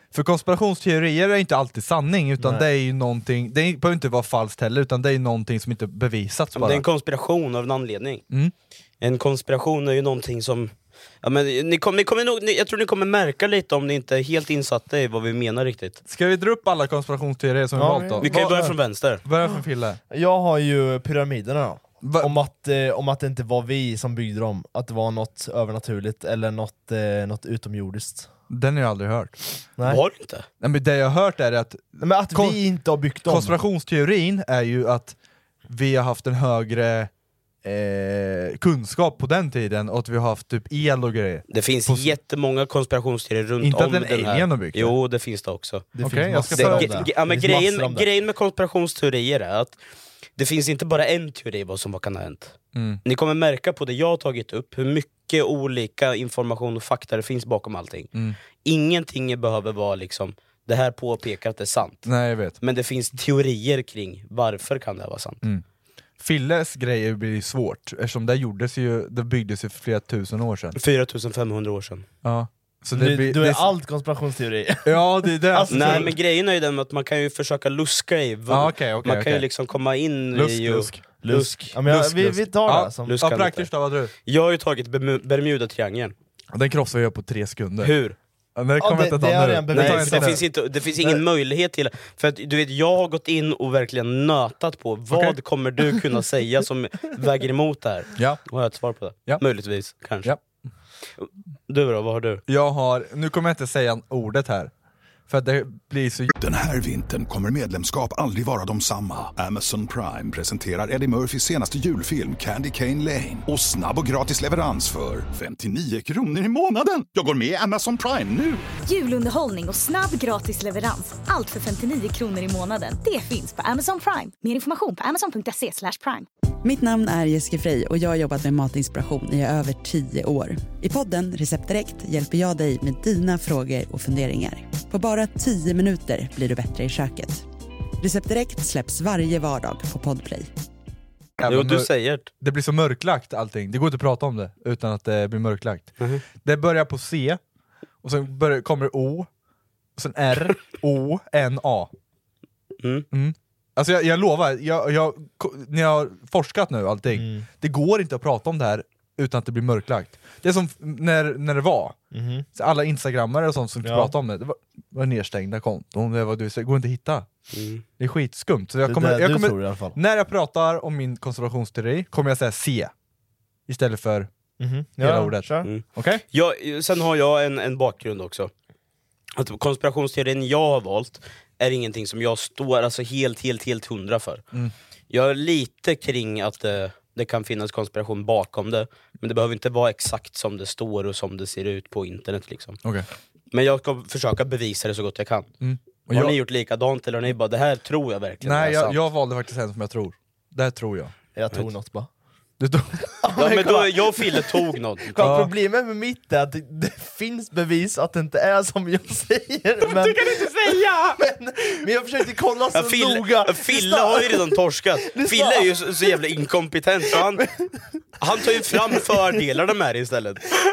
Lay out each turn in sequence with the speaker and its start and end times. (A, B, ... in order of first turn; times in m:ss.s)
0:00.1-0:06.8 A
0:02.4-0:02.6 B
0:06.6-0:08.2 C
0:09.0-0:16.0 C
0:16.1-0:18.7 A
0:17.8-0:18.8 B
0:18.2-0:19.2 C
0:19.2-0:20.0 A
0:20.1-0:28.3 B
0:22.0-0:22.4 A
0:28.5-0:29.4 A
0:29.8-0:30.0 B
0:29.8-0:30.5 C
0:30.6-0:35.2 A
0:32.0-0:33.6 B
0:35.7-0:37.1 A
0:37.6-0:42.1 A
0:41.5-0:45.9 C
0:43.6-0:44.9 A
0:46.0-0:48.1 B
0:46.0-0:47.1 A
0:46.5-0:49.8 C
0:50.4-0:58.1 C
0:52.7-0:53.0 A
0:58.6-1:02.1 C
1:02.0-1:02.6 A
1:02.6-1:05.4 C
1:06.2-1:10.8 A
1:10.8-1:12.1 C
1:12.2-1:13.7 A
1:12.9-1:16.2 B
1:14.8-1:16.1 A
1:15.7-1:21.7 C
1:18.5-1:19.5 A
1:20.3-1:21.0 A
1:21.2-1:23.2 B
1:21.8-1:24.1 A
1:23.1-1:23.7 C
1:24.2-1:26.2 C
1:26.5-1:28.0 A
1:27.8-1:28.2 C
1:28.6-1:30.4 A
1:28.8-1:31.2 B
1:29.7-1:40.3 C
1:35.1-1:35.4 A
1:38.2-1:38.4 A
1:41.2-1:42.4 C
1:42.5-1:44.7 A
1:45.3-1:46.3 A
1:46.4-1:58.6 D
1:58.9-2:06.3 E
2:06.6-2:17.4 F
2:18.0-2:20.5 F
2:21.4-2:27.4 A
2:21.5-2:22.3 C
2:28.0-2:29.3 A
2:30.0-2:31.9 A
2:32.8-2:33.1 C
2:33.1-2:42.0 A
2:37.1-2:37.5 B
2:42.1-2:42.5 B
2:42.6-2:47.3 A
2:43.8-2:44.1 B
2:47.5-2:47.8 C
2:48.0-2:52.9 A
2:48.8-2:50.0 B
2:53.7-2:54.3 A
2:54.6-2:55.7 B
2:55.0-2:56.2 A
2:55.6-2:58.5 C
2:59.4-3:04.4 C
3:05.1-3:12.8 C
3:13.5-3:15.5 C
3:15.6-3:16.4 A
3:16.1-3:19.0 C
3:18.4-3:21.1 A
3:21.4-3:22.1 B
3:22.6-3:23.2 A
3:23.2-3:24.6 B
3:23.4-3:25.4 C
3:25.1-3:34.5 B
3:25.2-3:25.5 A
3:29.8-3:31.2 A
3:32.7-3:37.4 C
3:35.0-3:35.8 B
3:38.2-3:40.5 C